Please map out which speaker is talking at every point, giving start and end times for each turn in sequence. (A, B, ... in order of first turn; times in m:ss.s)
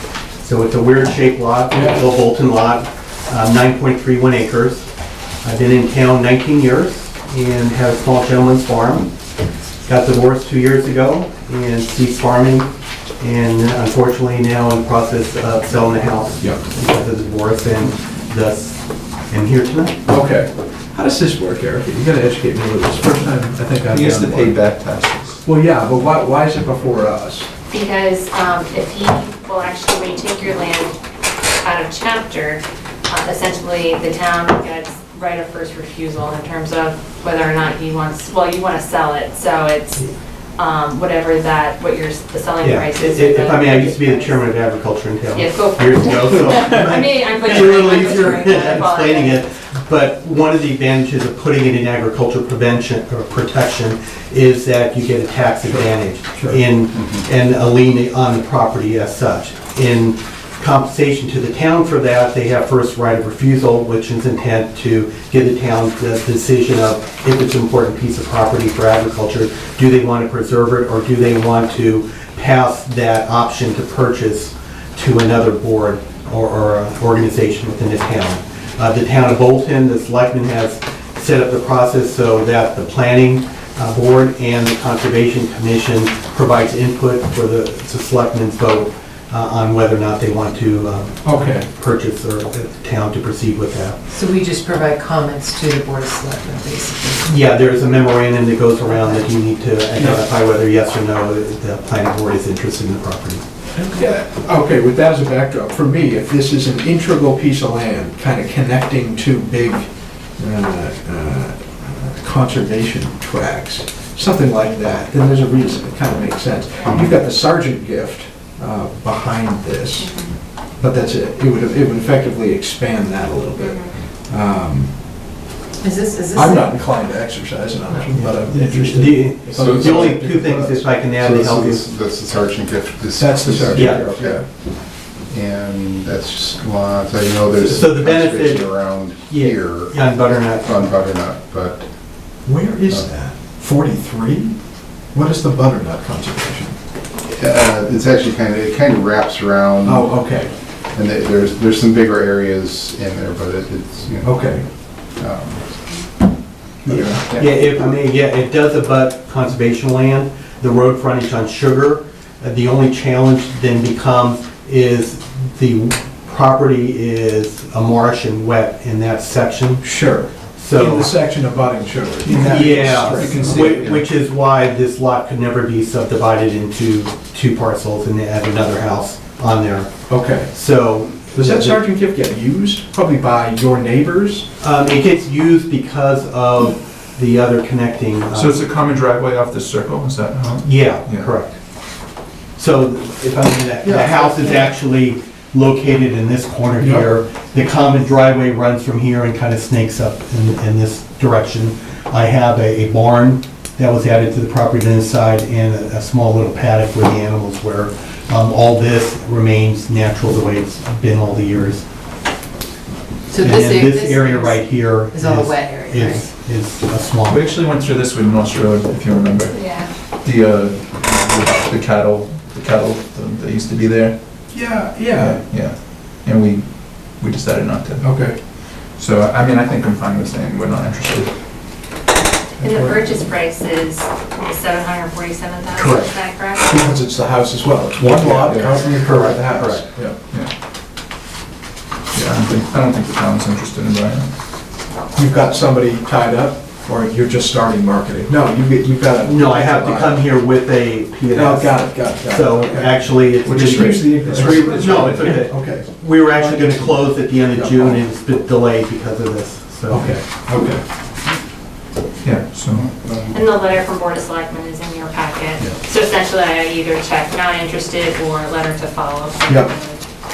0:00.4-0:04.9 A
0:01.7-0:02.0 B
0:05.4-0:09.1 A
0:09.9-0:20.0 A
0:20.1-0:24.6 B
0:23.9-0:25.4 C
0:25.4-0:27.5 B
0:27.7-0:31.0 D
0:31.6-0:44.5 D
0:42.6-1:34.0 A
0:45.3-0:49.4 D
0:55.7-0:56.6 B
0:56.9-0:57.3 E
1:31.2-1:31.7 B
1:34.1-1:37.3 F
1:37.2-1:43.4 A
1:38.9-1:39.2 F
1:40.0-1:40.2 B
1:43.8-2:05.3 B
1:56.8-1:57.1 E
2:00.0-2:00.4 D
2:03.6-2:04.0 D
2:05.8-2:06.7 F
2:06.3-2:10.2 B
2:08.2-2:11.9 A
2:09.5-2:14.6 E
2:13.2-2:14.4 B
2:13.8-2:14.0 A
2:15.3-2:21.9 E
2:17.5-2:20.8 A
2:22.4-2:26.8 B
2:27.2-2:30.2 E
2:29.8-2:30.5 B
2:30.9-2:34.3 E
2:34.2-2:34.6 B
2:35.2-2:35.8 E
2:36.8-2:37.5 E
2:36.9-2:49.9 A
2:36.9-2:37.2 B
2:49.8-2:53.4 B
2:50.6-2:51.1 A
2:52.2-2:54.1 C
2:52.3-2:59.9 A
3:00.1-3:00.5 B
3:00.5-3:01.8 A
3:01.3-3:04.5 B
3:04.6-3:08.6 A
3:08.3-3:11.3 C
3:10.6-3:11.6 A
3:12.6-3:31.8 A
3:14.0-3:14.7 F
3:16.8-3:17.2 B
3:33.3-3:36.3 F
3:33.4-3:37.4 A
3:37.3-3:39.6 C
3:39.5-3:39.9 D
3:40.2-3:44.2 C
3:44.5-3:45.4 B
3:45.2-3:51.4 C
3:48.0-3:48.4 B
3:52.6-3:56.8 D
3:52.6-3:53.2 B
3:55.7-4:00.2 B
3:58.0-3:58.8 E
3:58.9-3:59.9 A
4:02.1-4:04.3 C
4:05.1-4:10.3 B
4:09.2-4:20.2 A
4:11.3-4:18.1 B
4:13.4-4:15.4 C
4:19.9-4:20.8 B
4:22.2-4:22.9 C
4:22.7-4:23.4 E
4:23.3-4:30.0 D
4:29.5-4:29.7 B